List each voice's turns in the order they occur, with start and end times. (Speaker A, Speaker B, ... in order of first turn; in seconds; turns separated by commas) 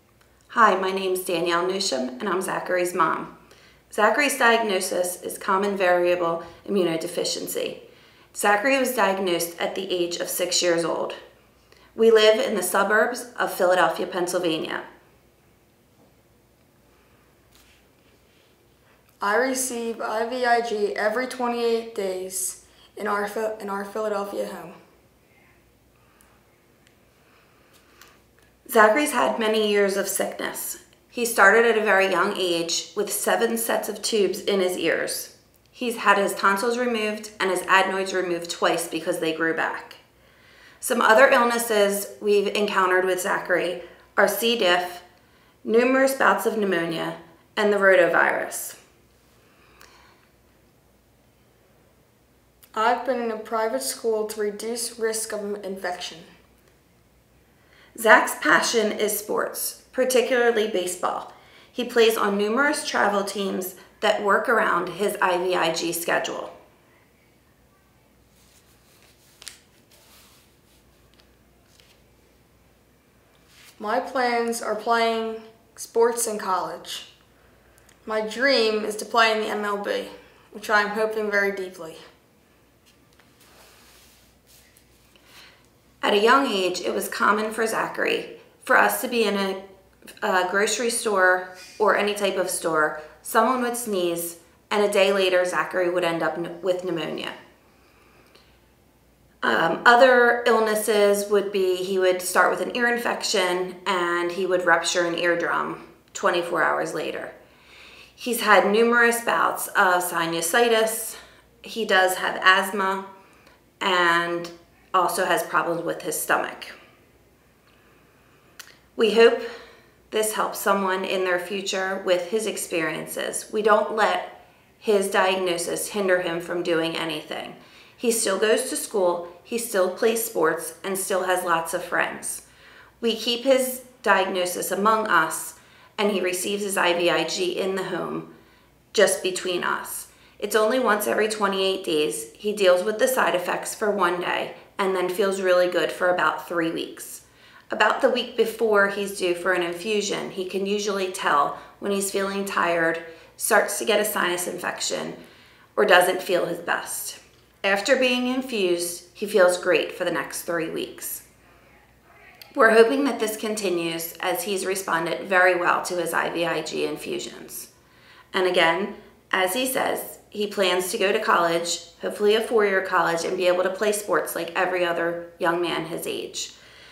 Speaker A: 0.5-3.3, Speaker A: 3.9-7.8, Speaker A: 8.3-11.1, Speaker A: 11.9-14.8, Speaker B: 19.2-24.7, Speaker A: 28.6-40.0, Speaker A: 40.8-45.0, Speaker A: 45.6-48.8, Speaker B: 52.7-56.3, Speaker A: 57.9-66.5, Speaker B: 73.8-77.1, Speaker B: 78.0-82.0, Speaker A: 86.0-89.6, Speaker A: 90.2-97.3, Speaker A: 99.4-107.3, Speaker A: 108.2-113.0, Speaker A: 113.8-116.7, Speaker A: 119.0-119.4, Speaker A: 120.1-132.4, Speaker A: 133.0-138.3, Speaker A: 138.9-155.2, Speaker A: 155.8-161.2, Speaker A: 162.5-167.7, Speaker A: 168.3-176.5